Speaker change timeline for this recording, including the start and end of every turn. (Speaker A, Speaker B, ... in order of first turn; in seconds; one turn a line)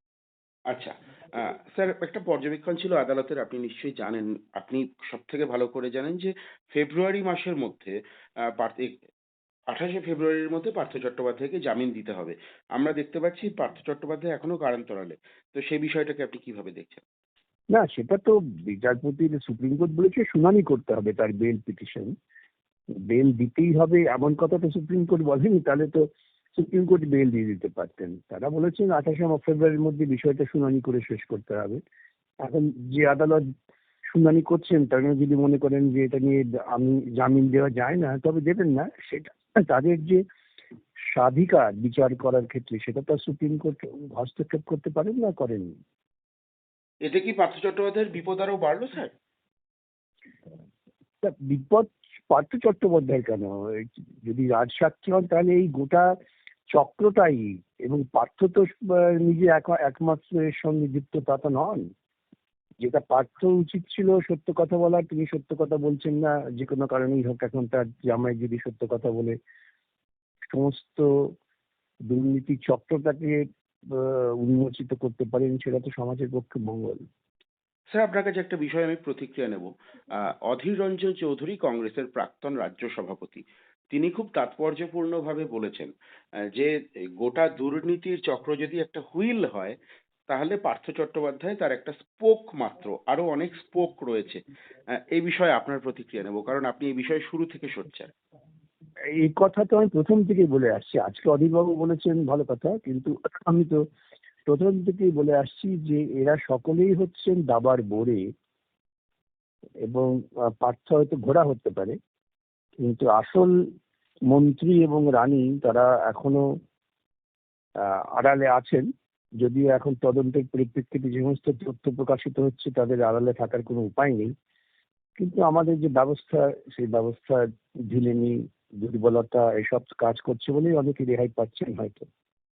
Speaker A: 0.7-7.9
Speaker A: 8.5-9.0
Speaker A: 9.7-17.0
Speaker B: 17.7-22.1
Speaker B: 23.1-31.8
Speaker B: 32.5-33.5
Speaker B: 34.1-40.2
Speaker B: 41.1-45.7
Speaker A: 47.1-49.1
Speaker B: 51.2-56.1
Speaker B: 56.7-61.9
Speaker B: 62.8-69.4
Speaker B: 70.5-71.3
Speaker B: 72.1-77.0
Speaker A: 77.9-85.9
Speaker A: 86.5-89.8
Speaker A: 90.3-94.4
Speaker A: 95.1-98.1
Speaker B: 99.2-103.8
Speaker B: 104.5-108.2
Speaker B: 109.9-112.0
Speaker B: 112.8-113.5
Speaker B: 114.3-116.5
Speaker B: 117.8-118.9
Speaker B: 119.4-124.3
Speaker B: 125.2-132.1